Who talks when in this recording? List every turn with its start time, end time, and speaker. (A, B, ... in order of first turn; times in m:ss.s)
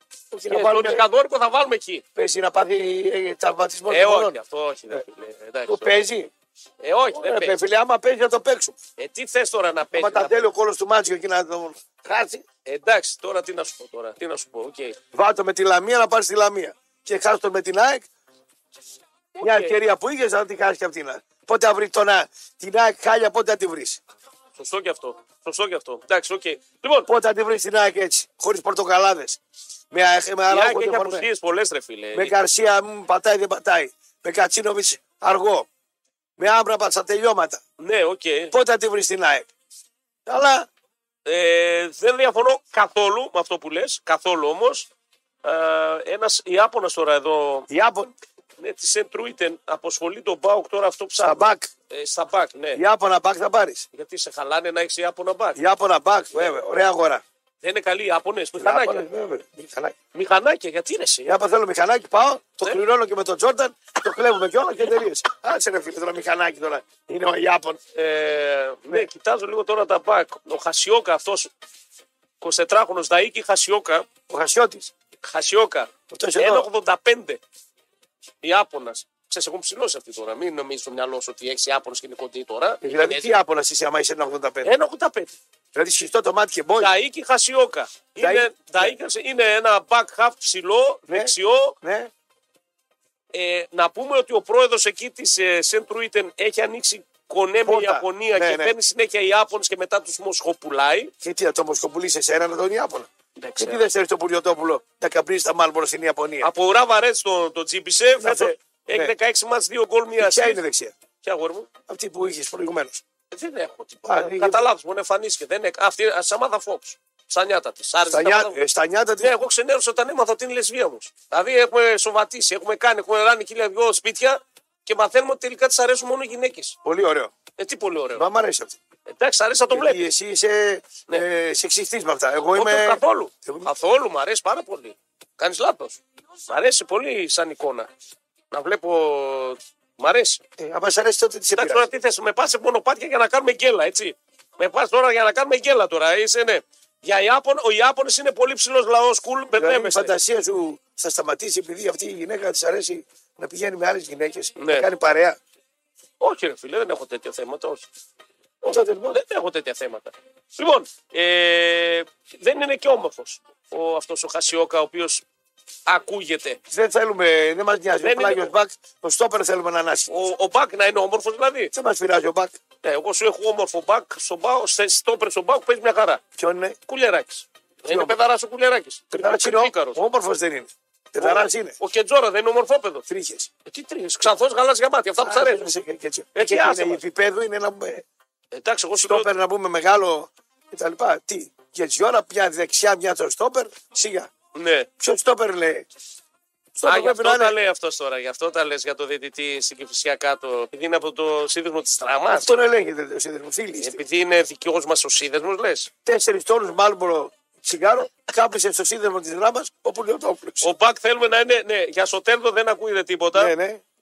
0:00.3-0:01.0 A
0:00.5-0:02.0 B
0:02.2-0:04.4 A
0:03.9-0:06.1 B
0:05.7-0:06.3 A
0:06.8-0:07.6 B
0:07.2-0:08.8 A
0:09.0-0:10.4 B
0:09.9-0:12.4 A
0:12.7-0:15.0 B
0:15.1-0:18.1 A
0:19.4-0:19.8 B
0:19.4-0:24.0 A
0:24.6-0:27.1 B
0:27.1-0:29.4 A
0:29.9-0:31.3 A
0:30.5-0:32.4 B
0:32.1-0:35.7 A
0:36.4-0:37.6 A
0:37.8-0:38.5 B
0:38.5-0:39.5 A
0:40.3-0:40.7 A
0:41.3-0:44.9 B
0:45.4-0:47.7 B
0:47.7-0:48.2 A
0:48.6-0:52.8 B
0:51.2-0:51.7 A
0:52.8-0:53.9 A
0:53.9-0:55.6 B
0:55.6-0:57.2 A
0:57.6-0:59.1 B
0:58.6-1:00.0 A
1:00.1-1:01.4 B
1:01.3-1:07.8 A
1:08.0-1:11.5 B
1:12.4-1:14.1 B
1:14.3-1:14.9 A
1:15.2-1:17.4 B
1:16.1-1:16.7 A
1:18.4-1:23.4 B
1:22.8-1:24.7 A
1:24.6-1:25.4 B
1:25.8-1:26.9 A
1:26.8-1:31.8 B
1:28.2-1:29.0 A
1:31.1-1:32.1 A
1:33.3-1:41.1 B
1:37.6-1:38.7 A
1:41.2-1:46.5 A
1:43.4-1:43.8 B
1:46.4-1:50.6 B
1:48.2-1:49.2 A
1:50.2-1:50.9 A
1:51.2-1:51.7 B
1:51.9-1:53.0 A
1:53.3-1:58.6 B
1:54.0-1:54.6 A
1:58.1-1:59.3 A
1:59.2-2:06.8 B
2:06.8-2:07.3 A
2:07.6-2:08.2 B
2:08.2-2:08.8 A
2:09.1-2:10.1 B
2:09.7-2:13.7 A
2:12.6-2:17.9 B
2:18.5-2:20.4 B
2:20.6-2:21.9 A
2:21.6-2:30.1 B
2:29.6-2:35.4 A
2:34.6-2:34.9 B
2:36.2-2:37.8 B
2:38.6-2:45.2 B
2:38.7-2:39.2 A
2:45.9-2:46.6 B
2:46.7-2:50.1 A
2:48.0-2:48.5 B
2:50.1-2:51.7 B
2:51.7-2:52.6 A
2:52.8-2:56.2 B
2:56.4-2:56.8 A
2:56.9-3:00.0 B
2:57.9-2:58.2 A
2:59.1-3:01.8 A
3:01.2-3:03.0 B
3:03.1-3:03.5 A
3:03.7-3:05.6 B
3:05.2-3:08.0 A
3:06.4-3:07.0 B
3:08.5-3:09.3 B
3:09.0-3:14.3 A
3:14.6-3:14.9 B
3:15.0-3:15.9 A
3:16.8-3:17.6 A
3:16.8-3:22.5 B
3:22.3-3:24.0 A
3:23.8-3:25.9 B
3:26.0-3:30.7 A
3:30.6-3:33.5 B
3:33.3-3:33.8 A